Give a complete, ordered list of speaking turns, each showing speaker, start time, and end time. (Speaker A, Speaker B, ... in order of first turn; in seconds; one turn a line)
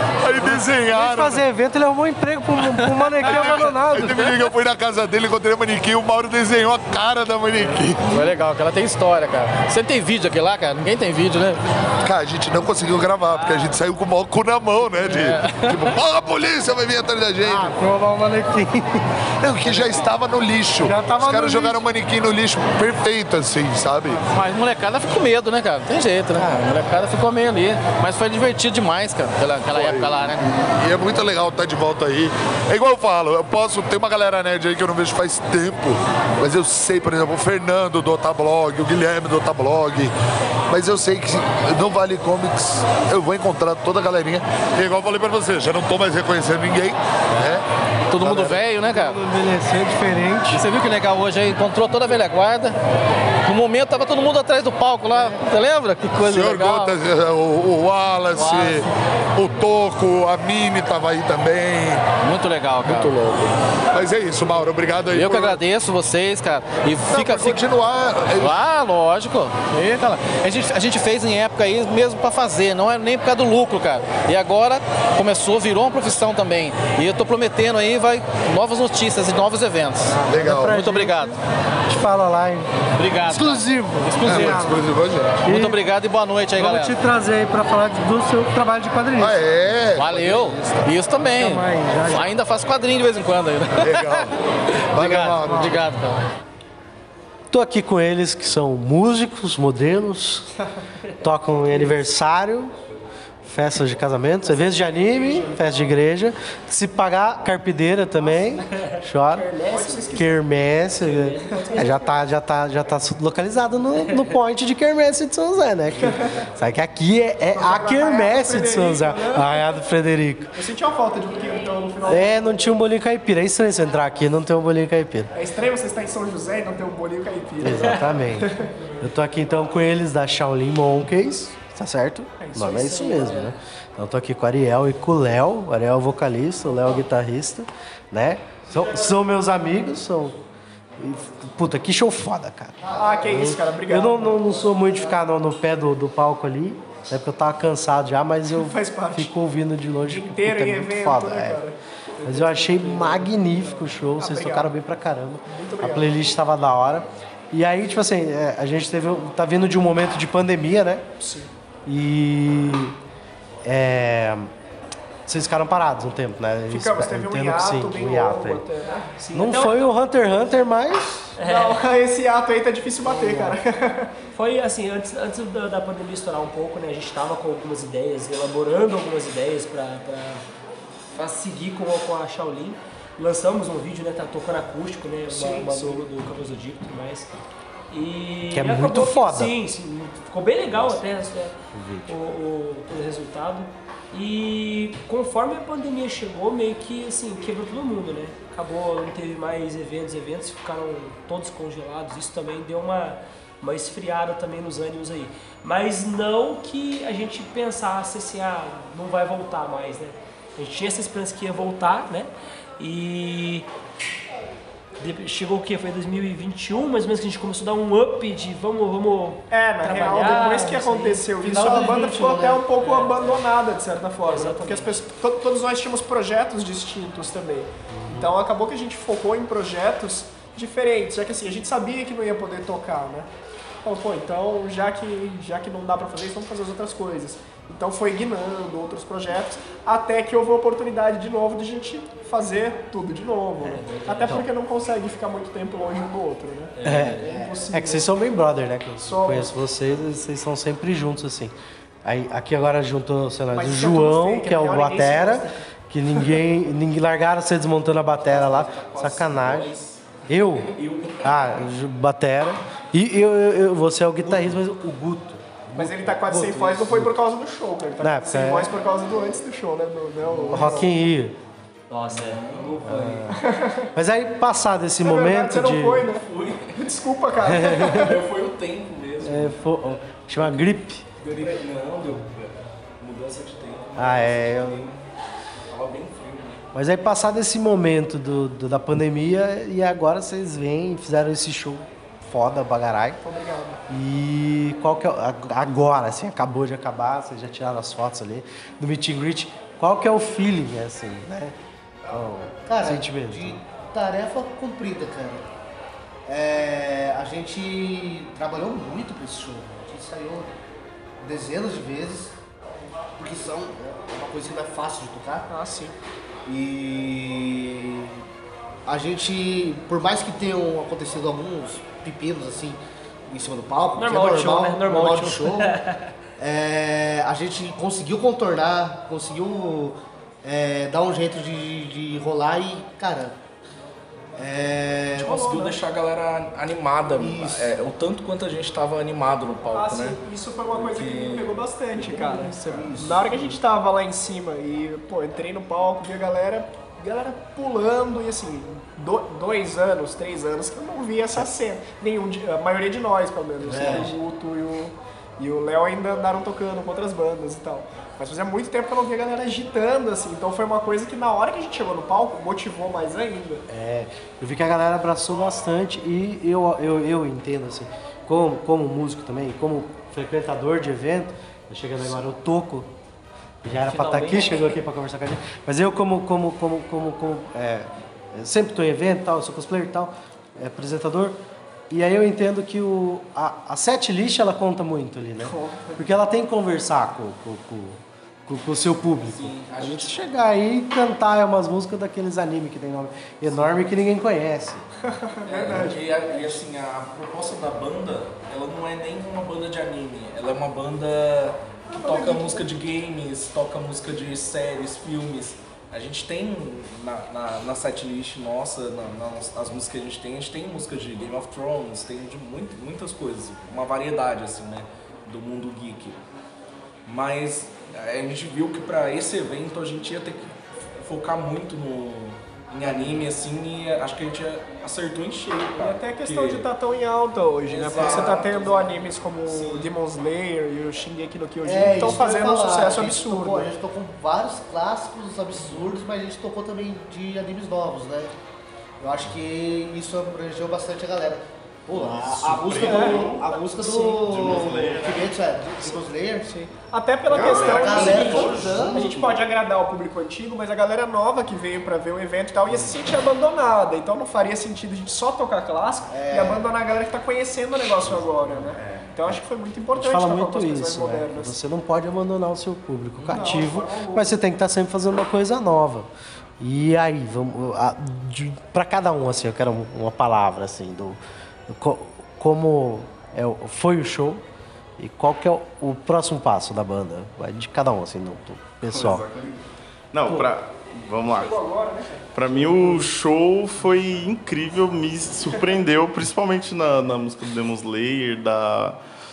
Speaker A: 0.2-1.4
Speaker B: 0.9-4.3
Speaker C: 2.7-3.6
Speaker A: 3.2-8.0
Speaker C: 8.1-11.6
Speaker A: 12.0-17.8
Speaker C: 13.3-13.7
Speaker C: 15.0-15.8
Speaker B: 17.4-19.1
Speaker A: 19.4-24.2
Speaker C: 19.7-19.9
Speaker B: 20.9-21.8
Speaker C: 24.3-30.4
Speaker A: 29.6-40.1
Speaker A: 40.7-47.6
Speaker C: 48.1-49.2
Speaker B: 48.2-50.6
Speaker C: 50.5-52.8
Speaker C: 53.4-57.0
Speaker A: 56.2-62.0
Speaker C: 58.3-58.9
Speaker C: 62.2-63.3
Speaker A: 62.9-65.6
Speaker C: 65.1-67.6
Speaker A: 67.0-68.6
Speaker C: 68.4-81.3
Speaker B: 80.1-82.7
Speaker A: 80.3-80.8
Speaker C: 83.0-84.7
Speaker B: 83.2-84.9
Speaker A: 84.2-85.5
Speaker B: 85.4-85.8
Speaker C: 85.4-87.0
Speaker B: 86.6-89.4
Speaker A: 89.2-90.4
Speaker C: 89.9-94.3
Speaker B: 90.0-92.3
Speaker A: 93.8-94.3
Speaker C: 94.9-96.2
Speaker A: 94.9-95.9
Speaker B: 95.4-95.8
Speaker B: 97.5-100.5
Speaker B: 101.2-102.7
Speaker B: 103.4-109.5
Speaker D: 104.4-105.6
Speaker E: 104.7-105.6
Speaker D: 109.3-110.3
Speaker E: 109.4-110.5
Speaker B: 110.1-120.5
Speaker D: 111.0-112.1
Speaker E: 111.5-112.1
Speaker E: 117.5-119.6
Speaker E: 120.5-122.7
Speaker B: 122.1-125.3
Speaker E: 125.3-128.6
Speaker B: 127.6-128.5
Speaker B: 129.0-140.4
Speaker E: 132.4-133.4
Speaker D: 132.6-133.6
Speaker B: 141.0-151.6
Speaker E: 142.9-144.4
Speaker E: 148.6-149.3
Speaker E: 150.0-154.7
Speaker B: 152.2-161.1
Speaker E: 155.5-156.2
Speaker E: 161.2-161.5
Speaker B: 161.9-162.9
Speaker B: 163.6-164.5
Speaker B: 165.3-168.6
Speaker E: 166.7-169.0
Speaker D: 169.1-169.9
Speaker B: 169.3-171.4
Speaker D: 171.4-171.8
Speaker E: 171.4-174.1
Speaker B: 173.0-173.6
Speaker D: 174.3-180.4
Speaker D: 181.2-187.3
Speaker E: 185.3-186.1
Speaker D: 187.9-191.5
Speaker B: 188.5-189.5
Speaker B: 191.7-192.2
Speaker D: 192.1-213.7
Speaker D: 215.0-221.3
Speaker E: 219.5-233.3
Speaker B: 221.4-222.6
Speaker D: 222.8-223.4
Speaker D: 224.2-225.0
Speaker B: 227.9-228.3
Speaker E: 233.8-248.2
Speaker F: 243.8-244.4
Speaker F: 246.8-247.4
Speaker B: 246.8-259.7
Speaker G: 247.2-247.5
Speaker E: 249.0-249.5
Speaker E: 253.5-255.6
Speaker F: 258.2-261.6
Speaker B: 260.3-267.1
Speaker F: 264.2-264.6
Speaker E: 265.7-270.9
Speaker B: 268.0-268.7
Speaker F: 270.2-270.8
Speaker B: 270.5-271.4
Speaker D: 271.9-272.4
Speaker F: 272.1-273.3
Speaker B: 272.8-273.4
Speaker E: 273.3-273.9
Speaker B: 273.9-276.1
Speaker E: 275.0-278.2
Speaker F: 276.2-276.8
Speaker B: 277.5-278.1
Speaker F: 277.9-279.6
Speaker B: 279.2-281.0
Speaker F: 280.4-285.0
Speaker B: 283.9-284.9
Speaker F: 285.7-286.6
Speaker B: 286.7-293.2
Speaker E: 293.2-293.8
Speaker B: 293.9-301.6
Speaker B: 302.1-303.6
Speaker G: 302.6-305.4
Speaker G: 306.2-310.5
Speaker G: 311.2-312.4
Speaker G: 313.2-315.5
Speaker E: 315.5-315.9
Speaker G: 316.4-318.2
Speaker G: 318.9-325.8
Speaker D: 324.0-326.0
Speaker G: 326.4-333.4
Speaker G: 334.4-335.4
Speaker F: 335.1-341.5
Speaker E: 335.2-335.8
Speaker G: 337.1-337.8
Speaker E: 339.7-363.6
Speaker G: 342.0-343.6
Speaker G: 353.6-354.1
Speaker B: 363.7-372.9
Speaker B: 373.6-381.4
Speaker D: 373.9-374.7
Speaker B: 381.9-394.9
Speaker E: 385.4-386.0
Speaker F: 389.2-390.2
Speaker E: 395.1-396.5
Speaker F: 395.4-416.2
Speaker E: 401.9-402.7
Speaker F: 417.1-426.7
Speaker E: 425.5-433.7
Speaker F: 427.6-429.9
Speaker G: 431.6-438.3
Speaker G: 439.0-446.5
Speaker F: 442.1-443.3
Speaker H: 442.5-443.5
Speaker E: 442.8-444.1
Speaker F: 444.2-445.1
Speaker H: 444.3-445.1
Speaker E: 446.5-461.5
Speaker F: 447.3-449.1
Speaker G: 447.3-449.4
Speaker H: 447.4-448.6
Speaker G: 456.1-456.6
Speaker G: 458.0-459.0
Speaker B: 459.9-466.1
Speaker E: 463.2-464.3
Speaker B: 466.6-474.4
Speaker B: 475.0-479.2
Speaker H: 478.9-479.6
Speaker H: 480.1-481.6
Speaker E: 481.4-483.0
Speaker H: 482.3-489.0